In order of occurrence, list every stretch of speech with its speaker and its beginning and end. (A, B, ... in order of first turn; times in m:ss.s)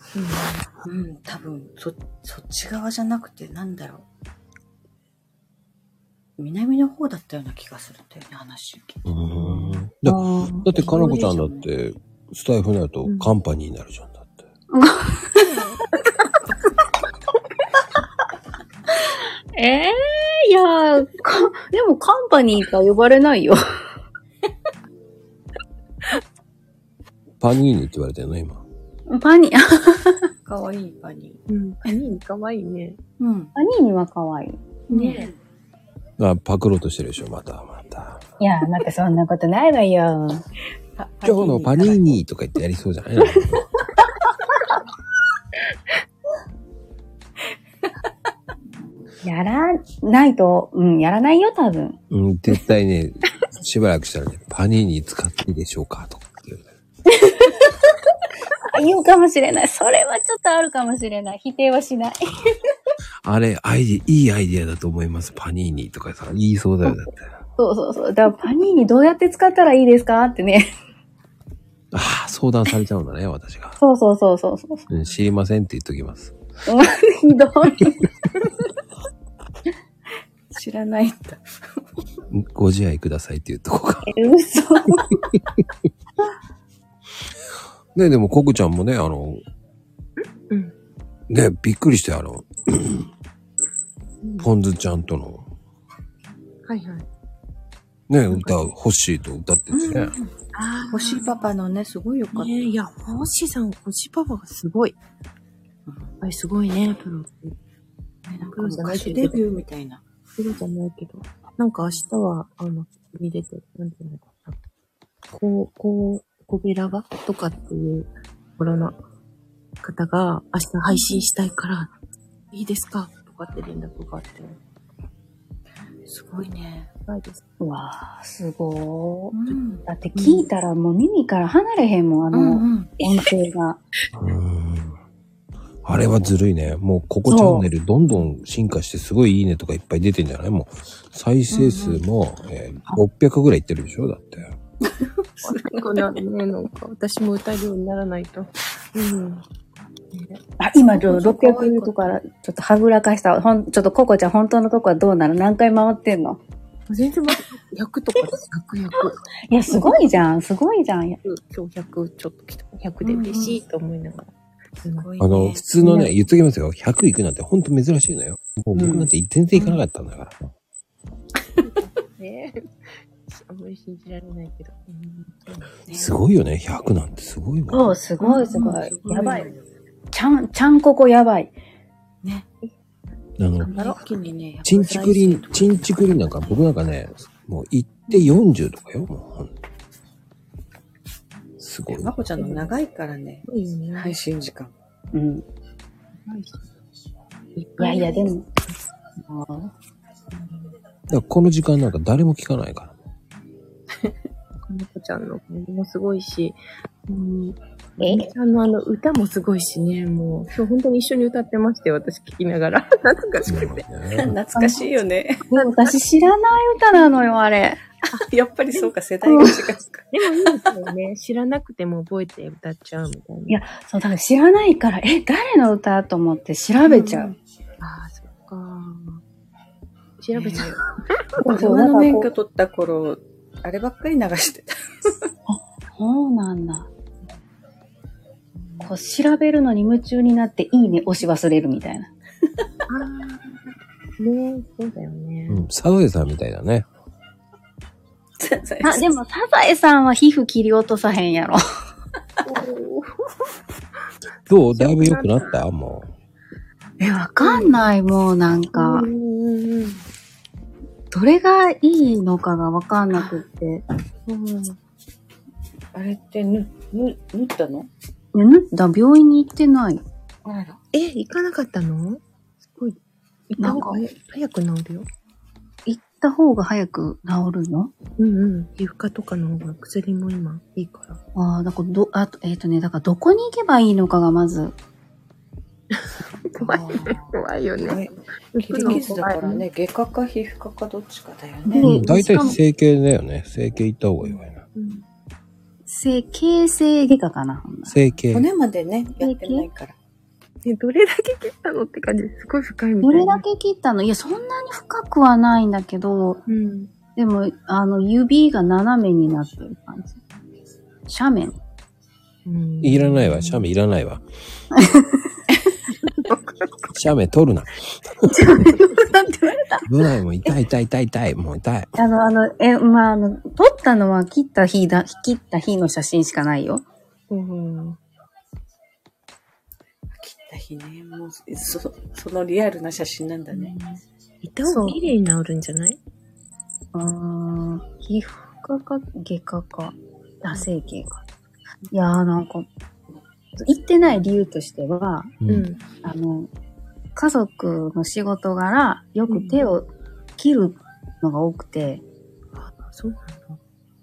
0:00.2-0:00.7 A
0:00.8-0:04.1 B
0:06.4-0:09.1 B
0:09.0-0:14.5 C
0:10.0-0:11.2 D
0:10.8-0:11.7 B
0:13.0-0:13.3 A
0:14.7-0:15.5 D
0:19.6-0:23.6 D
0:27.4-0:28.6 C
0:29.1-0:30.3 D
0:30.5-0:31.4 B
0:31.5-0:33.0 A
0:33.2-0:33.5 B
0:33.6-0:35.3 D
0:34.9-0:35.3 A
0:34.9-0:35.4 B
0:36.2-0:38.2 C
0:38.4-0:40.4 D
0:41.0-0:42.2 B
0:41.2-0:43.6 C
0:49.2-0:52.0 D
0:52.1-0:56.7 C
0:57.1-0:57.6 D
0:58.7-1:02.5 D
1:03.2-1:07.4 C
1:07.6-1:10.7 D
1:11.9-1:13.8 C
1:13.8-1:14.9 D
1:14.9-1:16.4 C
1:16.7-1:18.0 D
1:20.5-1:21.4 B
1:22.3-1:24.1 C
1:24.1-1:25.1 D
1:28.0-1:29.4 C
1:30.5-1:30.7 A
1:31.3-1:33.1 C
1:34.2-1:34.5 A
1:34.4-1:35.5 C
1:36.7-1:37.1 A
1:38.1-1:40.2 C
1:38.3-1:38.6 A
1:39.7-1:40.3 B
1:40.5-1:41.4 A
1:40.9-1:42.7 B
1:42.3-1:45.0 A
1:45.9-1:46.1 B
1:46.2-1:47.6 A
1:48.3-1:50.0 B
1:48.4-1:49.6 A
1:50.4-1:54.6 A
1:55.3-1:59.0 A
1:59.8-2:01.9 A
2:00.9-2:01.3 B
2:02.5-2:04.6 A
2:06.1-2:06.9 B
2:07.1-2:07.4 A
2:07.6-2:13.8 D
2:09.3-2:10.4 B
2:12.3-2:12.9 B
2:14.2-2:15.0 C
2:15.8-2:24.6 C
2:17.3-2:17.7 D
2:21.5-2:22.0 B
2:25.0-2:26.1 B
2:25.4-2:29.4 A
2:30.1-2:30.4 A
2:30.6-2:36.4 D
2:30.9-2:32.2 B
2:36.9-2:39.2 A
2:39.1-2:41.2 D
2:41.2-2:44.3 A
2:43.0-2:43.6 D
2:44.8-2:45.7 B
2:44.8-2:45.1 A
2:45.2-2:50.5 C
2:45.8-2:46.1 D
2:48.8-2:49.1 D
2:49.6-2:49.8 B
2:51.6-2:52.6 A
2:53.3-2:55.8 A
2:55.9-2:56.1 B
2:55.9-2:58.0 C
2:57.7-2:59.5 D
2:58.2-2:59.6 B
3:00.1-3:01.5 D
3:03.4-3:03.7 C
3:03.6-3:06.6 B
3:03.6-3:04.0 A
3:04.6-3:09.5 C
3:11.6-3:12.1 C
3:11.9-3:14.7 B
3:12.4-3:12.7 A
3:13.5-3:14.2 A
3:15.1-3:15.5 D
3:16.2-3:16.7 A
3:17.6-3:18.3 A
3:17.8-3:18.5 D
3:19.3-3:19.7 D
3:20.4-3:20.7 A
3:21.1-3:23.0 C
3:24.7-3:26.6 A
3:27.1-3:28.3 D
3:28.0-3:33.9 A
3:33.4-3:34.3 C
3:34.2-3:35.4 B
3:34.5-3:34.9 D
3:35.5-3:37.8 D
3:35.5-3:36.0 A
3:38.1-3:40.6 B
3:39.3-3:39.6 D
3:40.1-3:43.6 A
3:43.5-3:47.3 D
3:46.9-3:47.4 B
3:47.8-3:49.2 A
3:50.2-3:51.8 A
3:50.3-3:50.8 B
3:51.4-3:52.3 D
3:51.5-3:55.1 B
3:55.5-3:56.9 D
3:58.8-4:02.1 D
4:02.9-4:03.6 A
4:04.2-4:05.6 A
4:05.5-4:06.9 C
4:08.4-4:09.2 B
4:08.8-4:11.7 D
4:12.4-4:13.1 A
4:14.5-4:16.1 C
4:14.7-4:15.5 A
4:17.0-4:19.1 D
4:17.4-4:17.7 A
4:18.7-4:20.0 A
4:21.1-4:23.8 D
4:23.1-4:23.4 B
4:24.3-4:24.8 A
4:25.9-4:27.9 B
4:28.3-4:30.0 D
4:30.4-4:30.8 B
4:30.9-4:32.2 A
4:33.5-4:35.1 A
4:33.6-4:34.0 D
4:35.9-4:37.9 D
4:38.2-4:41.2 A
4:41.4-4:44.8 D
4:46.0-4:49.6 A
4:46.6-4:52.1 B
4:51.7-4:52.6 D
4:51.8-4:54.6 C
4:54.2-4:55.1 A
4:55.9-4:57.9 D
4:57.9-4:58.5 C
4:58.3-5:00.0 B
4:59.2-4:59.7 D
5:00.6-5:03.4 A
5:03.0-5:06.4 D
5:06.5-5:06.9 A
5:07.2-5:10.2 D
5:11.1-5:11.6 D
5:12.5-5:13.7 A
5:12.8-5:14.2 C
5:14.8-5:15.2 D
5:16.1-5:16.4 A
5:16.9-5:18.7 C
5:18.3-5:19.9 D
5:19.9-5:21.9 C
5:22.0-5:26.8 D
5:27.3-5:28.0 A
5:30.2-5:33.7 B
5:33.5-5:36.0 A
5:34.7-5:35.0 D
5:36.9-5:41.2 D
5:41.9-5:42.7 D
5:43.6-5:46.5 D
5:45.4-5:45.7 C
5:45.5-5:45.9 A
5:47.2-5:52.0 D
5:49.3-5:49.6 A
5:52.6-5:53.6 A